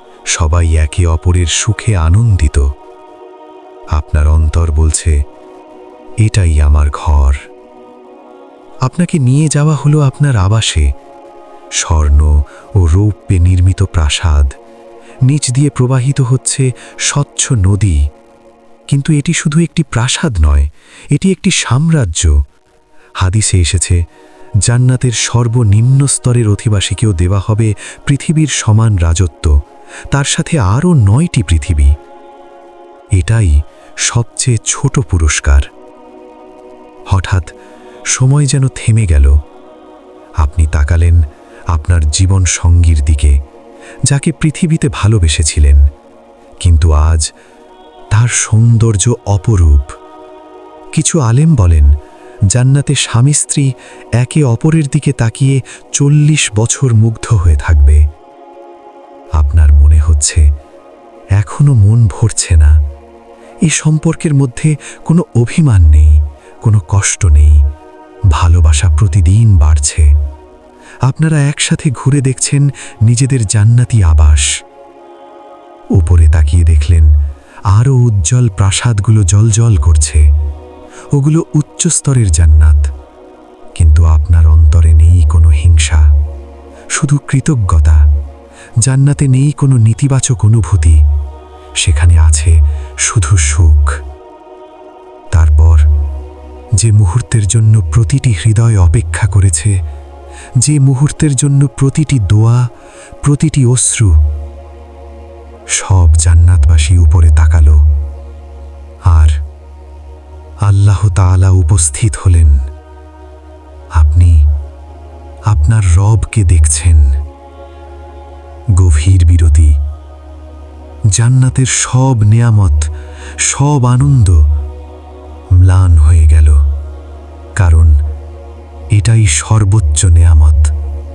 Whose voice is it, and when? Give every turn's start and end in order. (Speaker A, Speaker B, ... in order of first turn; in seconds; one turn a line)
Speaker A: 0.3-2.7
Speaker A: 3.9-5.2
Speaker A: 6.2-7.4
Speaker A: 8.8-10.9
Speaker A: 11.8-14.5
Speaker A: 15.3-18.0
Speaker A: 18.9-22.3
Speaker A: 23.2-24.0
Speaker A: 24.7-29.5
Speaker A: 30.1-31.9
Speaker A: 33.2-33.5
Speaker A: 34.1-35.7
Speaker A: 37.1-37.5
Speaker A: 38.1-39.3
Speaker A: 40.4-41.2
Speaker A: 41.7-43.4
Speaker A: 44.1-45.8
Speaker A: 46.6-47.3
Speaker A: 48.1-49.9
Speaker A: 50.9-51.9
Speaker A: 52.5-58.0
Speaker A: 59.4-60.4
Speaker A: 61.4-62.7
Speaker A: 63.7-67.5
Speaker A: 68.3-70.1
Speaker A: 71.1-74.5
Speaker A: 76.0-77.1
Speaker A: 77.7-80.2
Speaker A: 81.2-82.8
Speaker A: 83.8-86.0
Speaker A: 87.0-88.0
Speaker A: 88.8-91.0
Speaker A: 91.8-93.9
Speaker A: 95.3-95.8
Speaker A: 96.8-99.7
Speaker A: 100.6-102.6
Speaker A: 103.2-104.1
Speaker A: 105.8-107.8
Speaker A: 110.7-112.6
Speaker A: 114.0-114.4
Speaker A: 115.5-117.1
Speaker A: 118.8-119.7
Speaker A: 121.2-122.9
Speaker A: 123.4-124.4
Speaker A: 125.5-126.6
Speaker A: 127.6-128.0
Speaker A: 128.9-130.7